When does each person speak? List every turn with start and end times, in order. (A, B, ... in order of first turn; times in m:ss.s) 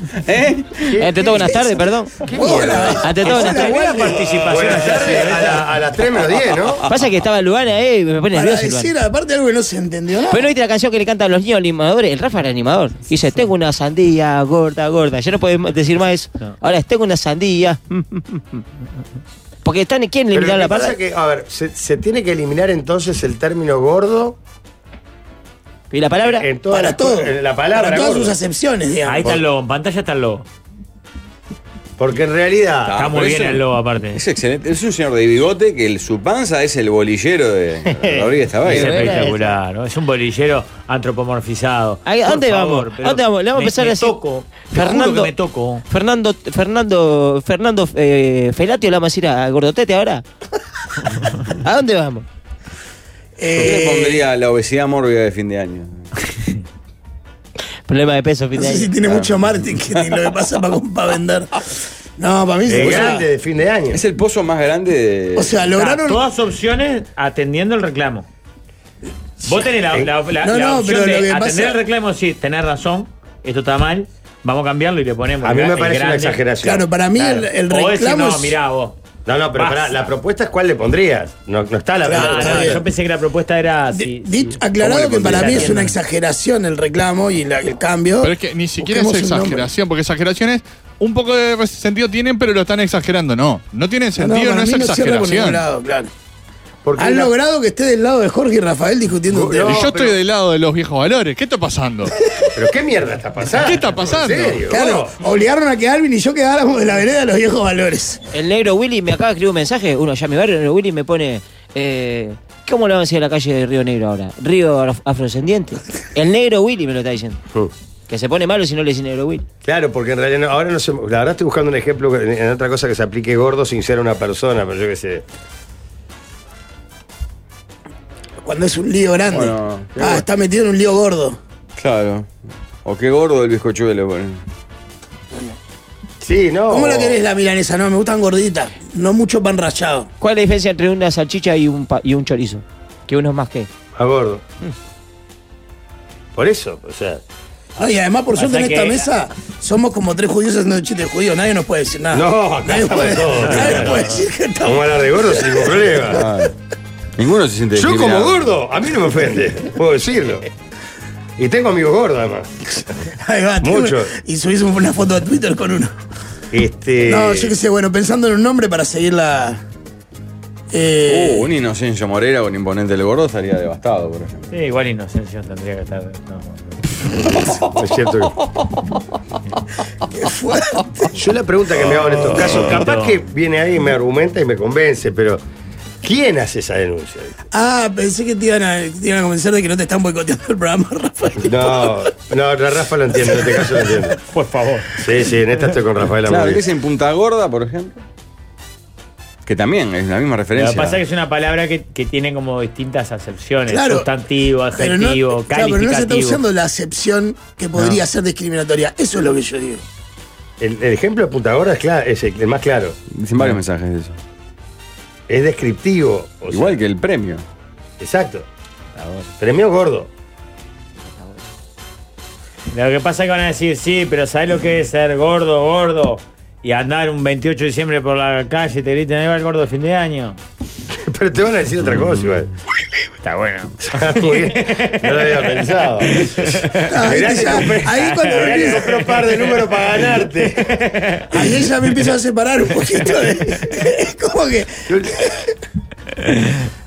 0:00.2-0:00.9 A
0:00.9-0:01.6 B
0:01.0-0:02.2 C
0:01.2-0:04.3 D
0:02.2-0:06.8 B
0:03.0-0:03.8 C
0:03.4-0:05.7 E
0:06.9-0:08.9 C
0:08.3-0:10.5 D
0:10.3-0:18.6 C
0:19.6-0:21.0 C
0:20.3-0:24.4 B
0:25.9-0:26.5 C
0:26.4-0:28.4 B
0:26.7-0:29.4 D
0:29.1-0:30.5 E
0:32.0-0:33.0 B
0:32.9-0:39.2 A
0:32.9-0:34.2 E
0:38.6-0:45.8 E
0:38.6-0:39.5 C
0:42.0-0:45.3 C
0:45.9-0:50.2 C
0:51.2-0:52.2 C
0:53.4-0:54.2 D
0:53.6-0:56.0 A
0:57.9-0:58.9 C
0:58.5-1:03.3 D
0:59.1-1:00.2 A
1:02.7-1:04.0 B
1:03.9-1:05.6 A
1:05.4-1:06.2 D
1:05.8-1:08.3 E
1:09.4-1:16.4 E
1:10.4-1:11.8 D
1:15.4-1:16.8 B
1:16.6-1:18.6 D
1:17.2-1:19.0 E
1:19.3-1:22.8 B
1:19.5-1:20.0 E
1:22.0-1:22.8 D
1:22.1-1:26.0 E
1:23.9-1:29.7 D
1:25.0-1:25.8 B
1:28.2-1:35.6 F
1:34.2-1:36.1 D
1:36.8-1:37.3 B
1:37.0-1:39.9 D
1:39.3-1:40.2 B
1:39.6-1:42.2 F
1:42.6-1:45.1 B
1:43.6-1:44.6 F
1:44.7-1:48.2 D
1:48.3-1:57.4 C
1:58.1-1:59.4 C
1:59.6-2:05.2 B
2:08.4-2:11.4 D
2:09.3-2:09.9 A
2:10.0-2:10.2 B
2:11.8-2:12.3 A
2:12.8-2:14.4 A
2:16.2-2:17.2 B
2:16.7-2:20.1 D
2:20.2-2:23.7 C
2:24.0-2:24.4 B
2:26.3-2:27.2 B
2:27.8-2:36.2 D
2:28.4-2:29.1 E
2:32.1-2:34.1 B
2:33.4-2:34.1 E
2:34.6-2:36.2 B
2:36.1-2:36.5 A
2:37.2-2:38.5 A
2:37.8-2:40.5 B
2:41.4-2:42.6 B
2:43.1-2:45.9 D
2:43.6-2:44.1 B
2:46.5-2:47.5 B
2:47.0-2:49.6 D
2:50.7-2:51.5 D
2:51.1-2:54.5 A
2:54.5-2:56.8 E
2:57.6-2:58.4 B
3:00.1-3:01.2 D
3:01.1-3:05.4 B
3:02.4-3:03.2 E
3:06.0-3:07.4 B
3:07.5-3:12.1 D
3:11.4-3:14.2 B
3:13.2-3:13.9 D
3:14.3-3:15.0 E
3:15.0-3:16.6 B
3:16.3-3:18.0 A
3:19.4-3:21.0 A
3:20.6-3:26.4 E
3:23.7-3:24.1 D
3:24.8-3:29.8 D
3:27.8-3:28.0 E
3:30.6-3:33.0 B
3:33.1-3:34.2 A
3:35.3-3:36.8 B
3:36.5-3:37.4 A
3:38.0-3:38.5 B
3:39.0-3:39.3 E
3:39.4-3:40.1 B
3:42.7-3:50.4 E
3:50.9-3:52.5 B
3:53.2-3:55.4 E
3:53.8-4:00.8 B
3:56.1-3:59.6 E
3:56.9-3:58.9 D
4:00.7-4:01.3 E
4:01.3-4:05.5 D
4:04.9-4:05.3 B